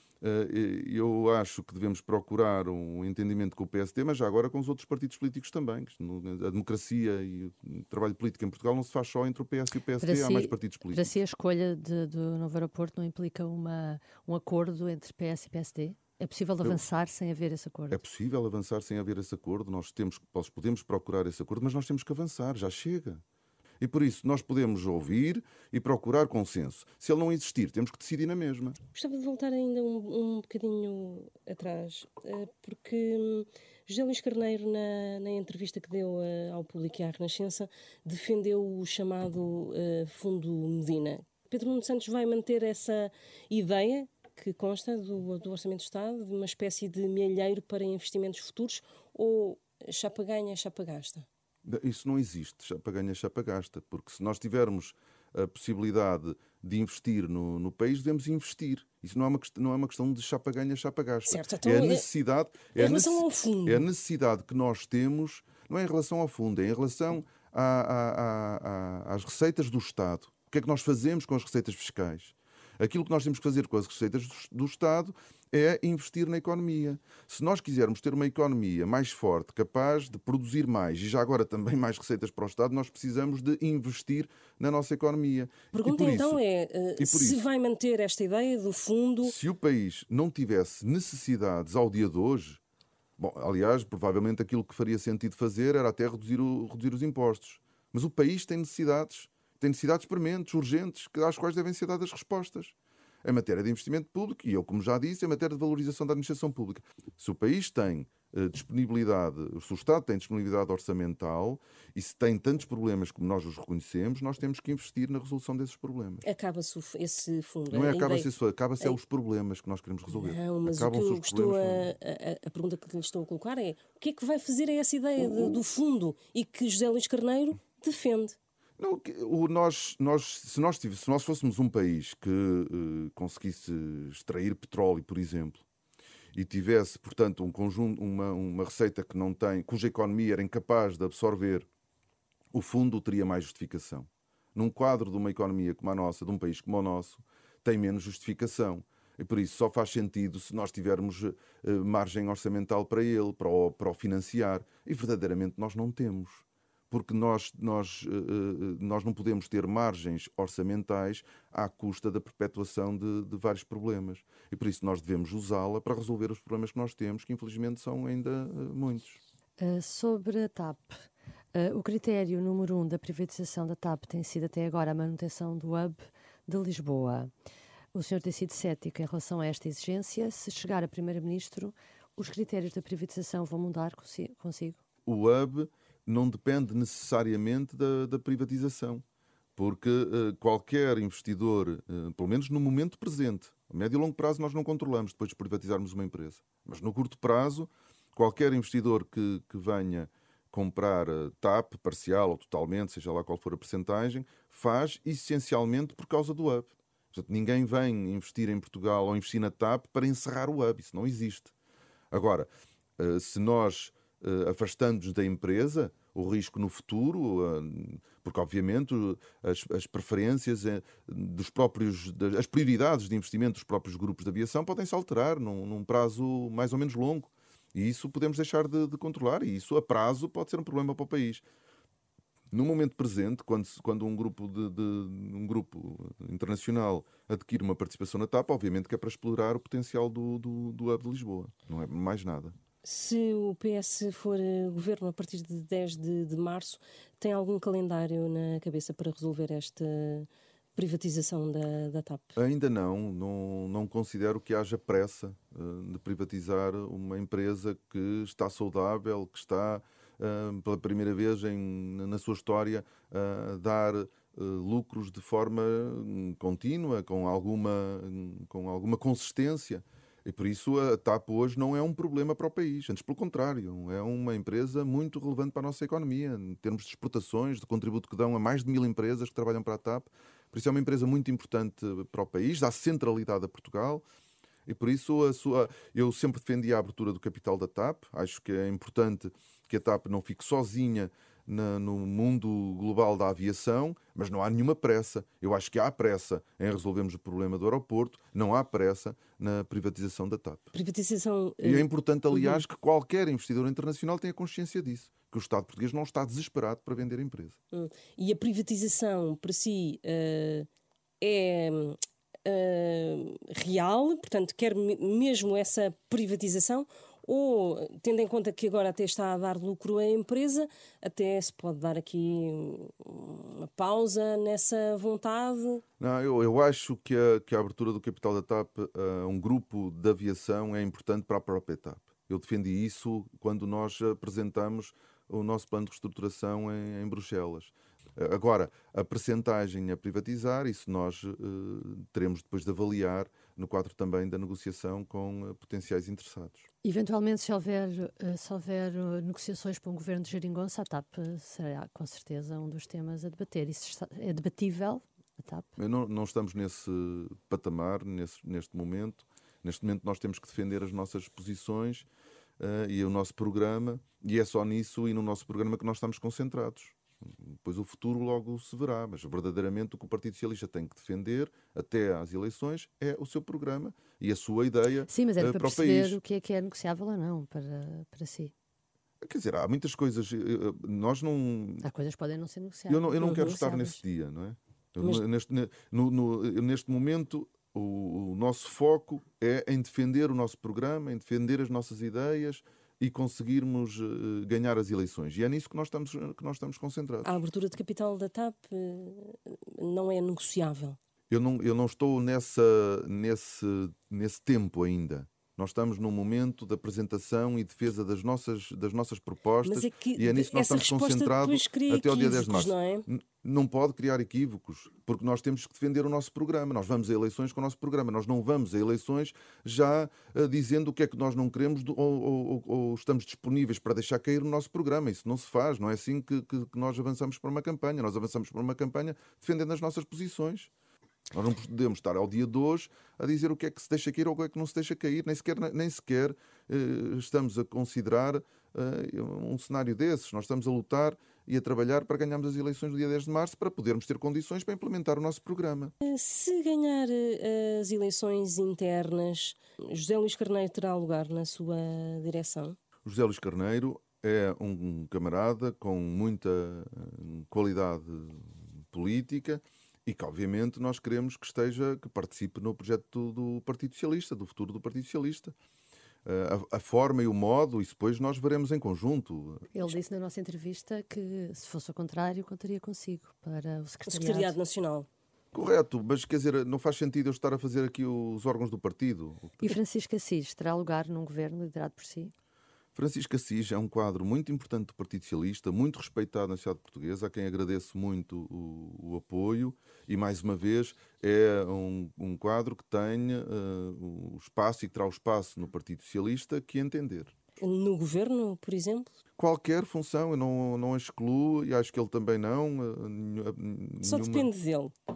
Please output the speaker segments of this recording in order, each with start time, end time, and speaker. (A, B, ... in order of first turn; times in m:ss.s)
0:00.2-0:11.1 A
0:10.0-0:18.0 B
0:17.9-0:23.2 A
0:23.8-0:28.8 A
0:28.9-0:51.3 C
0:51.7-1:26.4 A
1:01.3-1:02.0 C
1:02.8-1:03.9 C
1:25.7-1:29.3 C
1:27.0-1:27.4 A
1:29.2-1:32.6 A
1:33.2-1:56.3 A
1:56.2-1:58.3 C
1:57.7-2:01.9 A
2:00.1-2:08.4 C
2:05.2-2:05.6 A
2:08.8-2:15.6 A
2:16.3-2:21.7 A
2:22.5-2:49.2 A
2:49.6-2:57.3 B
2:57.9-3:04.8 B
3:05.1-3:09.0 A
3:09.6-3:31.5 A
3:32.1-3:32.5 A
3:33.0-3:51.4 A
3:52.5-4:02.5 A
4:02.8-4:12.3 C
4:12.4-4:44.0 A
4:44.7-5:00.7 A
5:00.7-5:02.6 C
5:01.6-5:07.6 A
5:07.7-5:10.7 C
5:11.2-5:25.8 C
5:26.0-5:46.7 A
5:46.8-5:55.7 B
5:55.8-6:02.1 A
6:02.6-6:16.2 A
6:15.1-6:18.5 B
6:19.2-6:21.8 A
6:21.8-6:24.0 B
6:22.9-6:37.4 A
6:23.2-6:23.6 C
6:37.2-6:41.0 C
6:41.3-7:10.7 A
6:49.6-6:53.1 C
7:11.3-7:25.9 A
7:26.0-7:32.8 C
7:33.0-7:45.5 A
7:46.2-7:49.7 A
7:49.7-7:54.6 B
7:54.1-7:55.1 C
7:55.5-7:59.7 A
7:59.6-8:02.3 B
8:03.0-8:17.3 A
8:17.6-8:19.1 C
8:19.4-8:24.5 A
8:24.0-8:24.9 C